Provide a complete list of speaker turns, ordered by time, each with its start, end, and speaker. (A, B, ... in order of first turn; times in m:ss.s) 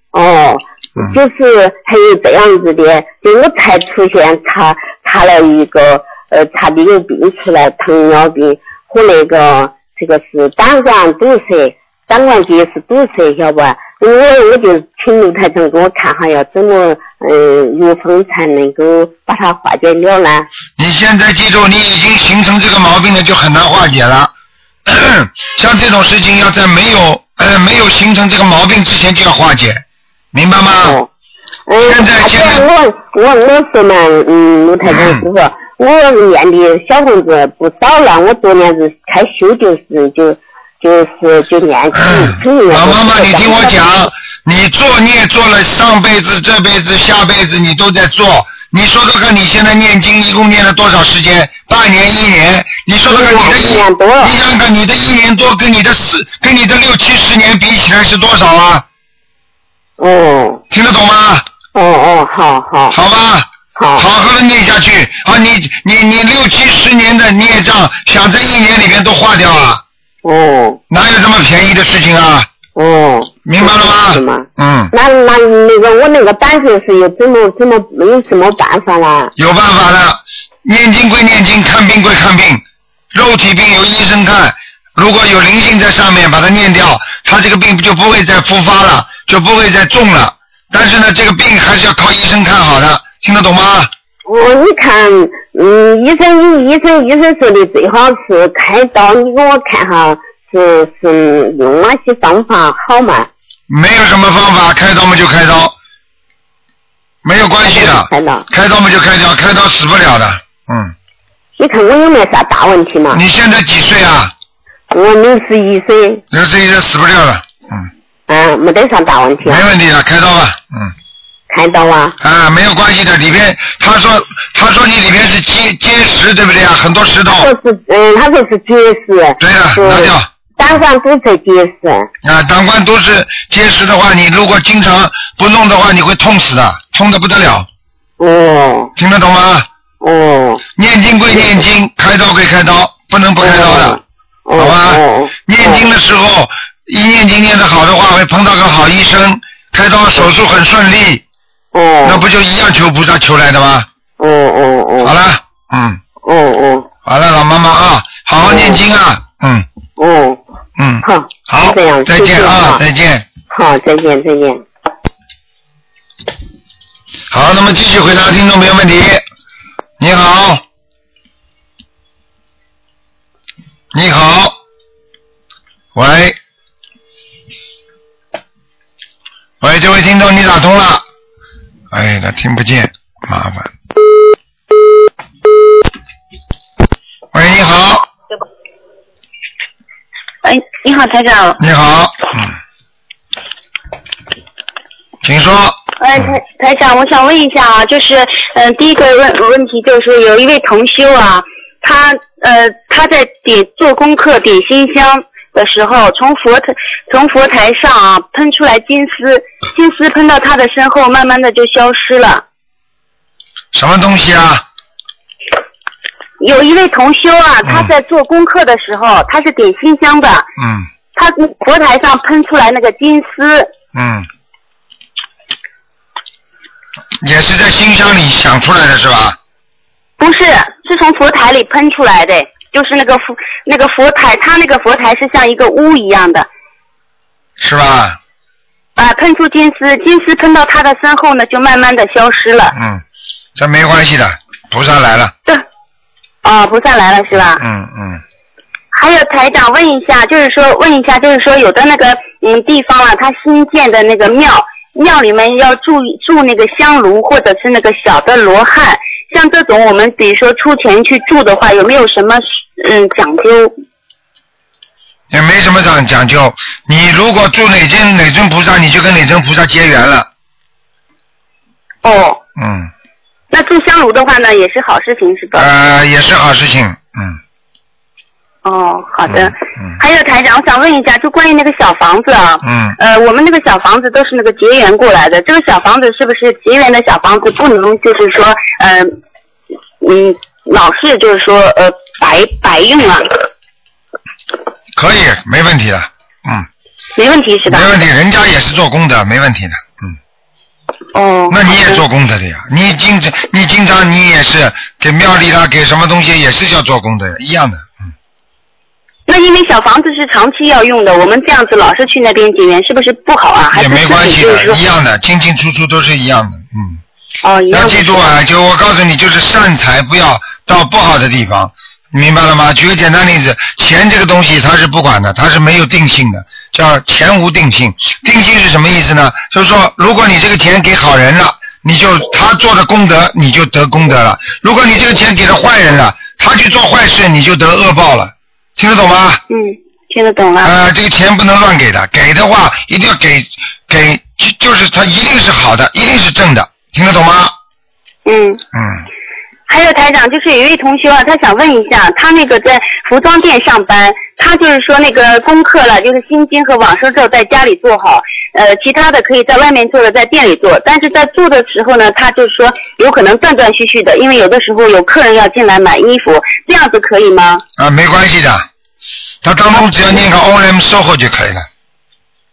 0:00.1-0:20.5 A
0:20.8-0:24.3 B
0:24.9-0:31.0 B
0:30.8-0:31.1 A
0:31.7-0:43.8 A
0:31.8-0:32.6 B
0:34.9-0:35.2 B
0:41.9-0:58.8 B
0:53.1-0:54.4 A
1:00.0-1:00.6 A
1:00.7-1:01.4 B
1:01.8-1:03.0 A
1:02.9-1:09.8 B
1:03.8-1:04.1 A
1:10.2-1:10.8 A
1:10.9-1:12.5 B
1:12.8-1:19.3 A
1:13.4-1:14.9 B
1:19.4-1:22.6 B
1:23.1-1:33.9 B
1:34.2-1:43.3 A
1:43.7-1:45.7 B
1:47.2-1:50.9 B
1:47.6-1:48.5 A
1:51.6-1:53.2 A
1:53.1-1:54.3 B
1:54.9-1:56.2 A
1:56.3-1:57.9 B
1:58.3-1:59.7 A
1:59.4-2:00.9 B
2:01.5-2:02.2 A
2:02.2-2:07.5 B
2:07.4-2:12.1 A
2:09.4-2:10.3 B
2:12.2-2:17.7 B
2:18.2-2:18.9 A
2:19.0-2:19.7 B
2:20.0-2:20.6 A
2:20.8-2:24.0 B
2:21.3-2:21.6 A
2:23.4-2:25.9 A
2:24.6-2:31.2 B
2:31.7-2:32.2 A
2:32.0-2:33.9 B
2:34.2-2:35.1 A
2:35.0-2:36.0 B
2:36.2-2:36.9 A
2:37.0-2:39.7 B
2:38.5-2:38.8 A
2:40.0-2:40.4 A
2:40.8-2:43.3 B
2:41.0-2:42.8 A
2:43.5-2:44.6 A
2:47.3-2:49.2 B
2:50.0-2:50.6 B
2:53.9-2:54.6 B
2:56.0-2:56.4 B
2:59.6-3:01.0 B
3:01.9-3:03.7 B
3:07.3-3:08.1 B
3:10.4-3:11.6 C
3:11.6-3:12.6 B
3:15.2-3:16.3 B
3:16.0-3:32.4 C
3:33.7-3:34.6 B
3:36.4-3:40.5 C
3:37.6-3:37.9 B
3:40.6-3:40.9 B
3:41.2-3:43.7 C
3:43.9-3:44.3 B
3:47.2-3:49.4 B
3:50.2-3:56.5 C
3:57.6-3:58.2 B
3:59.0-4:02.8 C
4:02.7-4:03.0 B
4:03.6-4:05.3 B
4:06.4-4:07.6 C
4:07.6-4:08.2 B
4:08.9-4:23.7 C
4:25.3-4:30.3 B
4:32.0-4:32.4 C
4:32.6-4:32.9 B
4:33.5-4:35.7 C
4:35.5-4:37.4 B
4:38.6-4:49.2 C
4:39.3-4:40.0 B
4:42.6-4:43.0 B
4:50.0-4:53.4 C
4:55.0-4:56.7 B
4:57.2-4:57.9 C
4:57.7-5:00.2 B
5:01.1-5:02.0 C
5:01.5-5:07.9 B
5:09.3-5:14.8 C
5:13.7-5:17.0 B
5:17.4-5:18.3 C
5:17.7-5:39.4 B
5:39.5-5:40.7 C
5:40.6-5:47.5 B
5:48.3-5:48.6 C
5:48.7-5:49.0 B
5:49.7-6:07.6 C
6:07.8-6:08.7 B
6:09.4-6:11.7 B